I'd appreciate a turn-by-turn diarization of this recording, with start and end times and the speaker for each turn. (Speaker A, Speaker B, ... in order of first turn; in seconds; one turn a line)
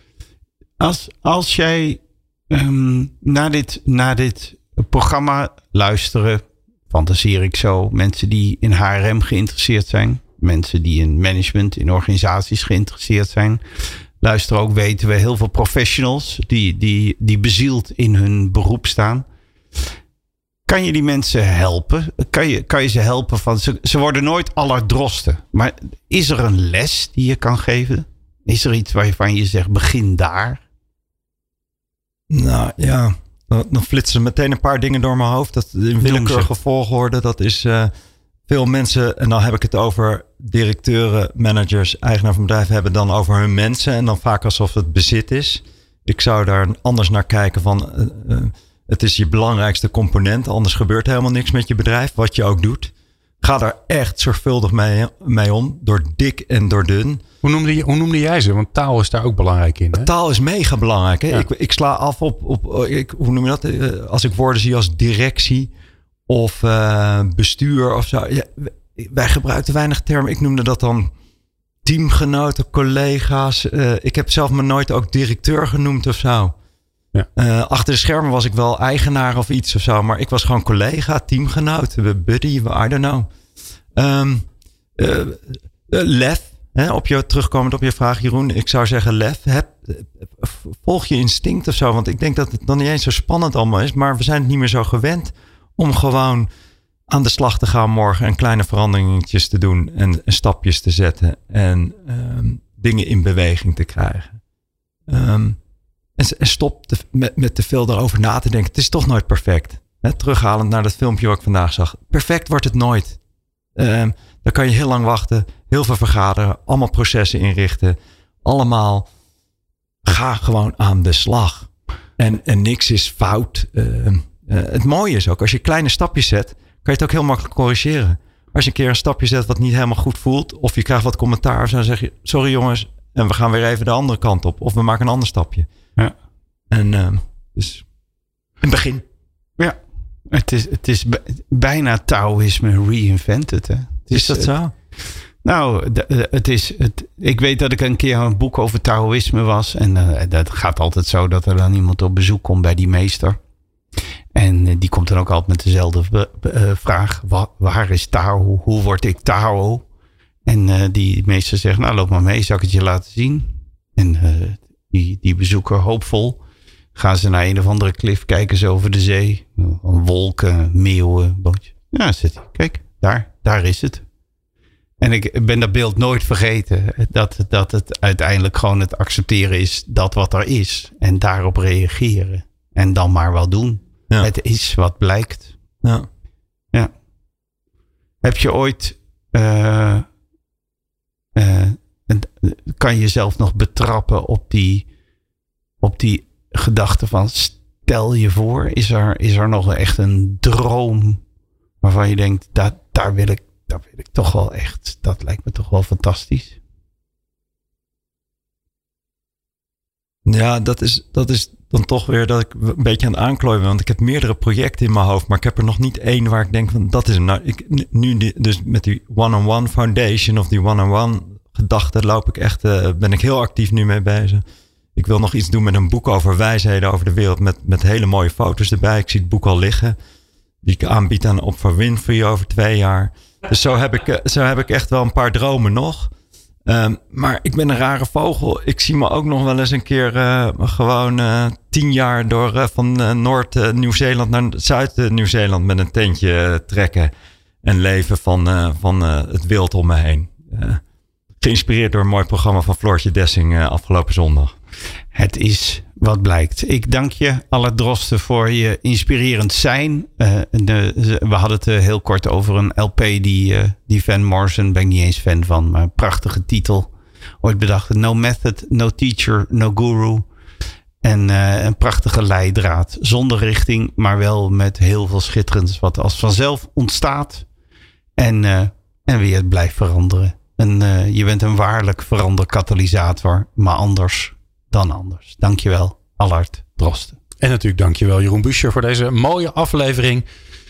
Speaker A: 0.8-13.6
Speaker A: 14.2-19.3
Speaker A: 20.7-30.6
Speaker B: 32.3-37.9
Speaker A: 36.0-36.5
Speaker B: 38.5-57.2
Speaker C: 57.4-60.1
Speaker B: 59.9-65.7
Speaker B: 66.3-71.1
Speaker B: 71.8-76.5
Speaker B: 77.4-83.3
Speaker B: 84.0-96.5
Speaker B: 97.1-104.4
Speaker B: 105.1-105.6
Speaker B: 106.2-113.2
Speaker B: 113.8-119.1
Speaker B: 120.0-135.7
Speaker B: 136.7-137.9
Speaker B: 138.6-139.0
Speaker A: 139.6-153.4
Speaker B: 144.1-144.7
Speaker A: 154.3-159.9
Speaker A: 160.5-166.4
Speaker A: 166.9-174.1
Speaker A: 175.0-185.6
Speaker A: 188.2-190.1
Speaker A: 191.3-194.9
Speaker A: 195.8-201.2
Speaker A: 201.8-206.6
Speaker B: 210.3-224.4
Speaker B: 225.0-230.0
Speaker B: 230.6-236.1
Speaker B: 236.7-247.1
Speaker B: 247.6-250.8
Speaker B: 251.4-254.6
Speaker A: 255.1-266.9
Speaker A: 267.4-270.3
Speaker A: 271.0-277.5
Speaker A: 278.2-287.2
Speaker C: 287.4-290.3